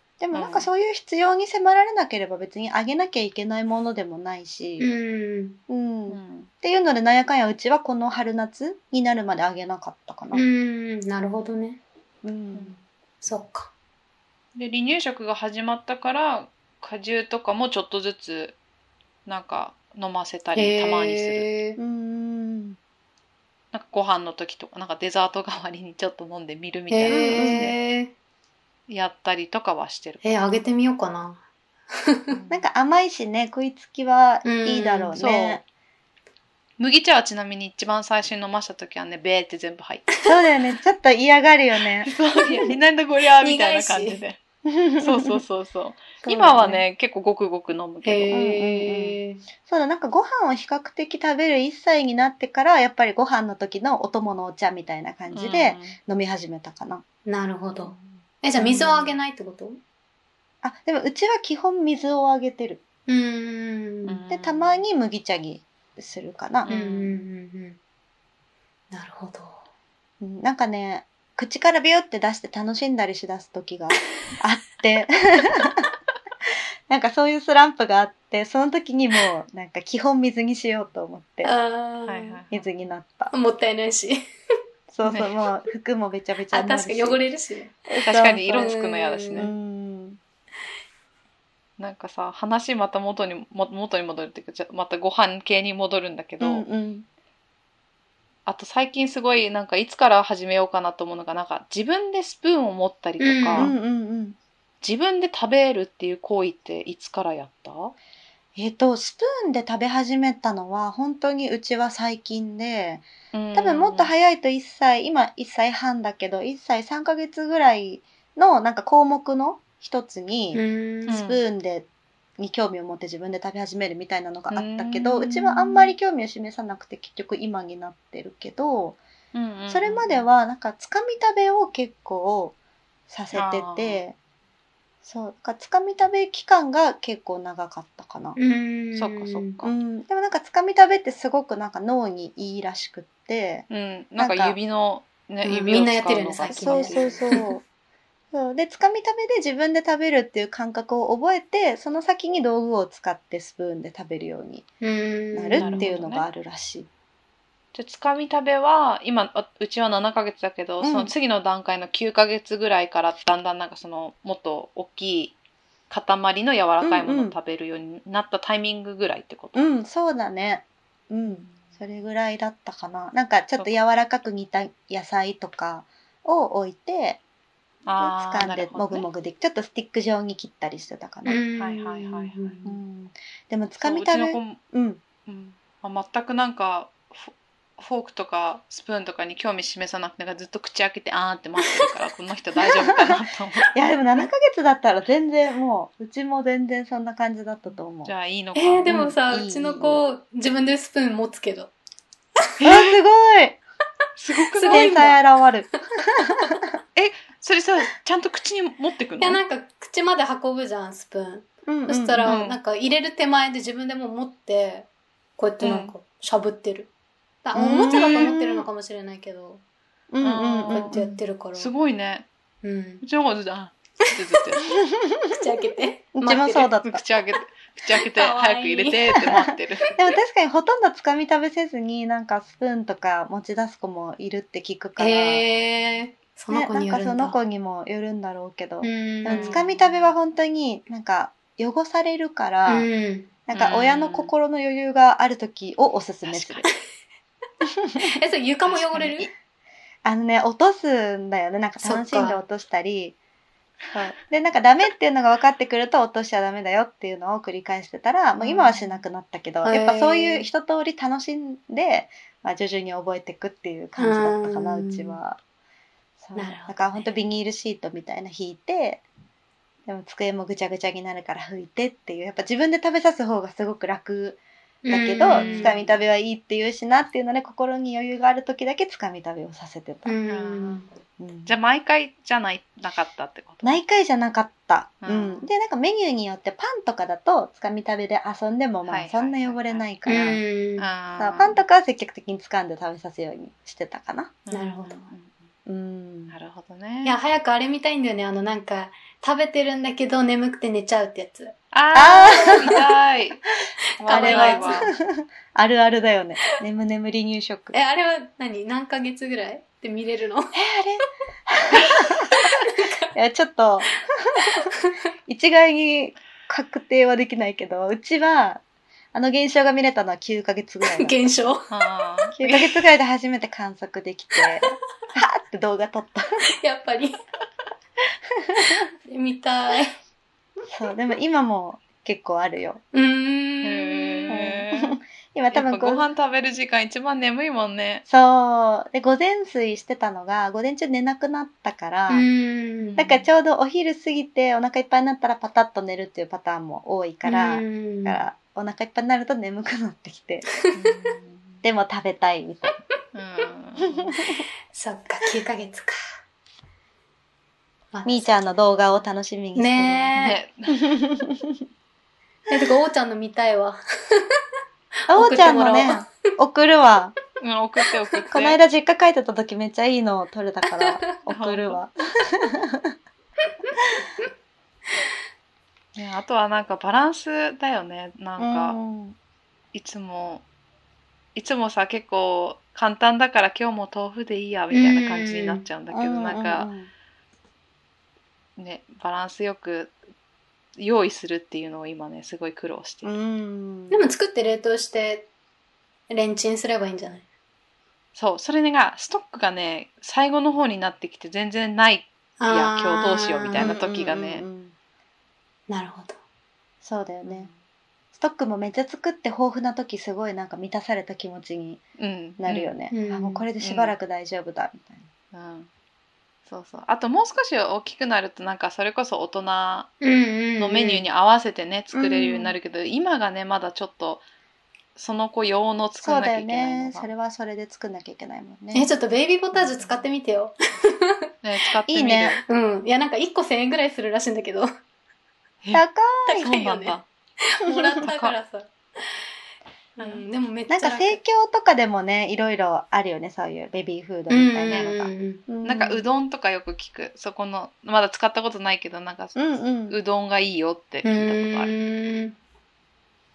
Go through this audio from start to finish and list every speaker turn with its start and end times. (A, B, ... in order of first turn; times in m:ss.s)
0:00.2-0:04.9 A
0:00.3-0:00.7 B
0:04.8-0:05.6 C
0:05.7-0:10.4 A
0:06.1-0:06.5 B
0:10.3-0:11.8 C
0:12.2-0:12.8 A
0:13.2-0:13.7 C
0:14.6-0:18.6 B
0:19.3-0:21.5 B
0:20.6-0:21.8 C
0:21.8-0:22.8 A
0:23.7-0:27.8 B
0:26.9-0:28.1 C
0:27.1-0:27.7 A
0:28.9-0:30.3 B
0:30.2-0:31.4 C
0:31.9-0:32.4 C
0:32.3-0:32.6 B
0:32.5-0:35.6 A
0:34.4-0:35.1 C
0:35.2-0:35.6 B
0:36.8-0:40.1 B
0:40.2-0:42.1 A
0:42.0-0:44.4 B
0:43.4-0:44.2 C
0:44.7-0:45.4 A
0:45.0-0:48.4 B
0:46.2-0:46.8 A
0:48.0-0:49.4 C
0:48.3-0:57.0 A
0:55.3-0:56.0 B
0:57.3-0:59.8 C
0:57.8-0:59.1 A
1:00.6-1:02.8 A
1:03.1-1:04.2 C
1:04.1-1:04.8 B
1:04.3-1:07.0 A
1:06.6-1:07.2 B
1:06.7-1:07.8 C
1:08.9-1:09.6 C
1:10.2-1:15.8 A
1:16.9-1:21.5 A
1:21.4-1:22.4 C
1:22.1-1:22.6 B
1:22.5-1:23.3 A
1:23.3-1:24.2 C
1:24.9-1:27.2 A
1:25.0-1:25.3 B
1:26.5-1:27.8 C
1:27.9-1:28.7 A
1:28.1-1:29.5 B
1:28.6-1:29.5 C
1:29.4-1:30.2 A
1:31.8-1:36.7 B
1:36.4-1:37.1 A
1:38.5-1:43.7 B
1:43.2-1:43.8 C
1:43.6-1:44.4 A
1:44.8-1:48.0 B
1:48.6-2:01.9 A
1:53.3-1:54.1 B
2:00.5-2:01.2 C
2:01.1-2:01.4 B
2:02.4-2:09.0 A
2:04.5-2:05.9 B
2:09.3-2:10.3 B
2:09.7-2:12.6 A
2:13.1-2:14.2 A
2:13.3-2:14.0 B
2:15.0-2:18.4 A
2:18.4-2:19.6 C
2:19.0-2:19.7 B
2:19.6-2:24.6 A
2:23.7-2:27.3 B
2:25.4-2:27.6 C
2:26.5-2:27.6 A
2:28.3-2:34.7 A
2:34.8-2:35.9 C
2:35.3-2:36.9 A
2:35.6-2:36.2 B
2:37.7-2:45.4 B
2:40.8-2:41.1 A
2:45.9-2:49.8 B
2:46.8-2:47.4 A
2:49.6-2:57.2 A
2:51.3-2:51.6 B
2:57.9-2:59.1 B
2:58.0-3:01.4 A
3:01.2-3:02.6 C
3:01.6-3:02.7 B
3:02.6-3:05.0 A
3:03.8-3:04.6 B
3:05.3-3:13.7 B
3:13.7-3:18.1 A
3:18.0-3:19.0 B
3:18.6-3:21.7 C
3:18.9-3:20.0 A
3:22.6-3:23.0 B
3:22.6-3:23.6 A
3:24.2-3:25.2 B
3:24.5-3:25.3 C
3:24.7-3:25.8 A
3:27.0-3:29.4 B
3:29.2-3:36.9 C
3:31.7-3:32.3 A
3:32.2-3:32.6 B
3:35.6-3:35.9 B
3:37.4-3:39.6 C
3:37.6-3:38.7 A
3:37.9-3:38.3 B
3:40.1-3:41.2 A
3:40.2-3:41.0 B
3:40.7-3:41.7 C
3:41.6-3:42.3 B
3:42.6-3:43.0 C
3:43.0-3:44.8 B
3:45.3-3:49.1 C
3:46.2-3:47.0 A
3:46.9-3:49.9 B
3:49.2-3:55.4 A
3:55.0-3:57.4 C
3:56.5-4:02.9 A
3:58.8-3:59.6 C
3:59.3-4:00.2 B
4:02.7-4:03.3 C
4:03.5-4:06.6 A
4:03.5-4:04.3 B
4:06.2-4:06.7 B
4:08.2-4:09.3 C
4:08.8-4:09.3 A
4:10.0-4:13.2 A
4:11.8-4:12.4 C
4:13.9-4:25.4 A
4:18.4-4:18.7 B
4:19.6-4:20.5 C
4:24.0-4:25.2 C
4:26.2-4:29.0 A
4:26.3-4:27.1 C
4:29.9-4:40.2 A
4:34.8-4:35.8 C
4:35.3-4:36.0 B
4:40.1-4:40.9 C
4:40.3-4:40.8 B
4:41.2-4:41.6 A
4:41.4-4:43.8 B
4:43.6-4:50.4 A
4:45.0-4:45.5 B
4:48.8-4:49.9 B
4:50.1-4:50.9 C
4:50.8-4:51.6 B
4:51.2-4:54.4 A
4:54.5-4:55.5 B
4:54.5-4:55.0 C
4:55.7-4:56.4 A
4:56.3-4:57.2 B
4:57.0-5:01.5 C
5:01.7-5:03.4 B
5:01.9-5:02.7 A
5:02.4-5:02.8 C
5:04.0-5:04.9 B
5:04.0-5:04.9 C
5:04.1-5:07.8 A
5:07.7-5:10.5 C
5:10.5-5:12.2 A
5:11.8-5:12.1 B
5:12.3-5:13.0 C
5:13.1-5:14.5 A
5:15.3-5:18.6 A
5:19.1-5:21.5 A
5:20.8-5:21.7 C
5:21.7-5:22.8 B
5:22.4-5:26.3 A
5:26.6-5:27.2 C
5:28.6-5:30.0 C
5:30.7-5:32.8 A
5:32.9-5:34.3 C
5:33.6-5:35.0 B
5:34.3-5:36.1 A
5:35.5-5:38.0 B
5:38.1-5:42.3 A
5:42.1-5:43.0 C
5:42.8-5:43.2 B
5:43.0-5:50.5 A
5:47.3-5:48.2 C
5:50.7-5:51.6 B
5:51.6-5:52.8 A
5:53.1-5:54.1 B
5:53.8-5:54.4 A
5:54.7-5:56.0 C
5:57.9-5:58.4 C
5:58.0-6:00.2 A
5:59.6-6:00.4 C
6:00.2-6:00.9 B
6:00.8-6:01.6 A
6:02.5-6:04.2 C
6:05.1-6:06.1 C
6:05.1-6:07.2 A
6:07.4-6:08.6 B
6:08.3-6:12.9 A
6:10.7-6:11.1 C
6:11.3-6:11.8 B
6:16.0-6:18.8 B
6:18.4-6:19.2 A
6:19.7-6:20.5 B
6:21.4-6:26.7 B
6:24.7-6:25.6 C
6:25.9-6:26.9 A
6:28.6-6:30.0 B
6:30.8-6:33.2 B
6:33.0-6:34.1 A
6:33.9-6:35.3 C
6:36.1-6:37.3 C
6:38.2-6:44.5 B
6:42.4-6:43.8 C
6:43.6-6:44.7 A
6:45.7-6:46.2 C
6:46.8-6:47.5 A
6:47.3-6:47.5 B
6:48.1-6:51.8 A
6:52.0-6:52.7 B
6:52.4-6:55.1 A
6:52.9-6:53.4 C
6:53.6-6:54.0 B
6:55.3-6:55.7 B
6:56.5-6:59.9 B
7:00.0-7:01.0 C
7:00.6-7:04.2 B
7:01.9-7:02.6 A
7:05.0-7:07.1 B
7:06.0-7:08.9 A
7:08.7-7:11.1 C
7:09.8-7:10.0 B
7:11.4-7:12.4 B
7:11.9-7:12.4 A
7:12.5-7:14.7 C
7:15.6-7:17.1 B
7:15.7-7:16.5 A
7:16.4-7:17.0 C
7:17.6-7:18.7 C
7:17.7-7:18.0 A
7:18.0-7:18.4 B
7:20.0-7:21.2 C
7:20.0-7:20.2 B
7:20.7-7:26.0 A
7:24.3-7:25.4 C
7:24.7-7:25.0 B
7:25.6-7:31.7 B
7:29.4-7:30.0 A
7:31.0-7:32.4 C